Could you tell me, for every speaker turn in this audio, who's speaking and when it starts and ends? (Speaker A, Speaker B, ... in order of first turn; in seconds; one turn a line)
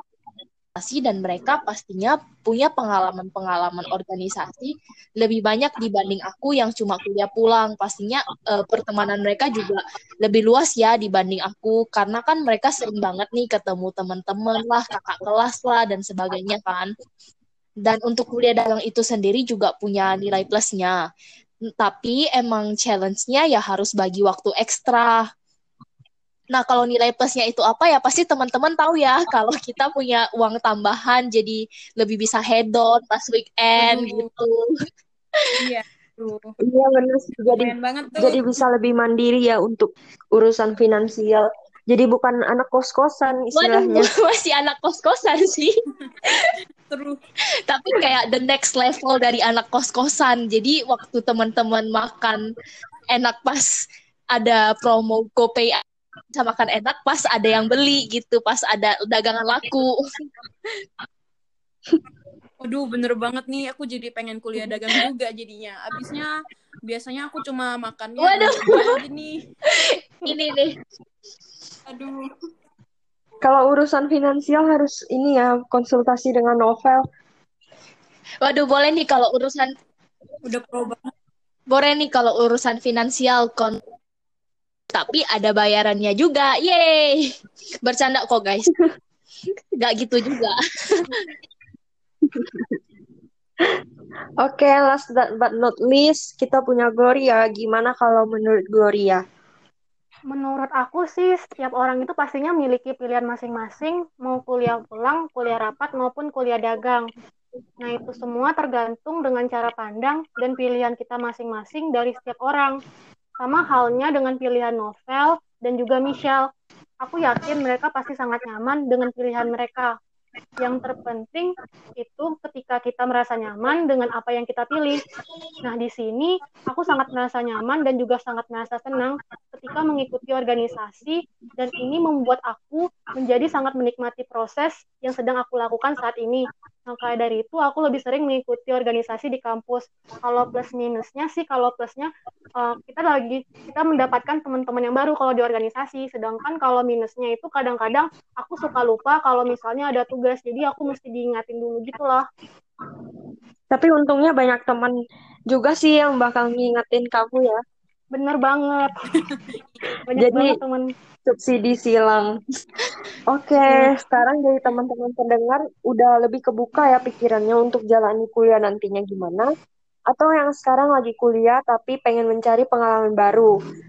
Speaker A: 0.8-16.9
Speaker A: 17.8-21.0
Speaker A: 21.8-25.2
Speaker A: 26.5-34.7
Speaker B: 33.8-34.3
Speaker B: 35.6-36.5
Speaker C: 36.6-44.1
Speaker B: 37.5-38.4
Speaker A: 43.5-45.7
Speaker A: 46.2-46.5
Speaker B: 46.9-47.2
Speaker A: 47.7-52.4
Speaker A: 53.1-53.8
Speaker A: 54.3-55.8
Speaker A: 56.4-60.0
Speaker B: 62.6-66.3
Speaker B: 66.9-69.4
Speaker A: 68.2-69.0
Speaker A: 69.7-70.8
Speaker B: 71.9-72.2
Speaker C: 73.4-77.0
Speaker A: 78.4-79.7
Speaker B: 80.5-81.1
Speaker A: 81.7-83.8
Speaker A: 84.9-87.3
Speaker A: 87.8-88.7
Speaker A: 89.8-91.3
Speaker C: 92.2-92.8
Speaker C: 94.4-99.2
Speaker D: 100.3-107.1
Speaker D: 107.8-112.8
Speaker D: 113.4-116.5
Speaker D: 117.0-119.9
Speaker D: 120.6-125.0
Speaker D: 125.6-152.2
Speaker C: 153.7-154.9
Speaker C: 155.5-157.6
Speaker D: 158.1-158.9
Speaker D: 160.1-160.9
Speaker C: 160.2-160.6
Speaker C: 161.3-162.3
Speaker C: 163.3-169.5
Speaker D: 163.6-164.0
Speaker C: 170.1-173.5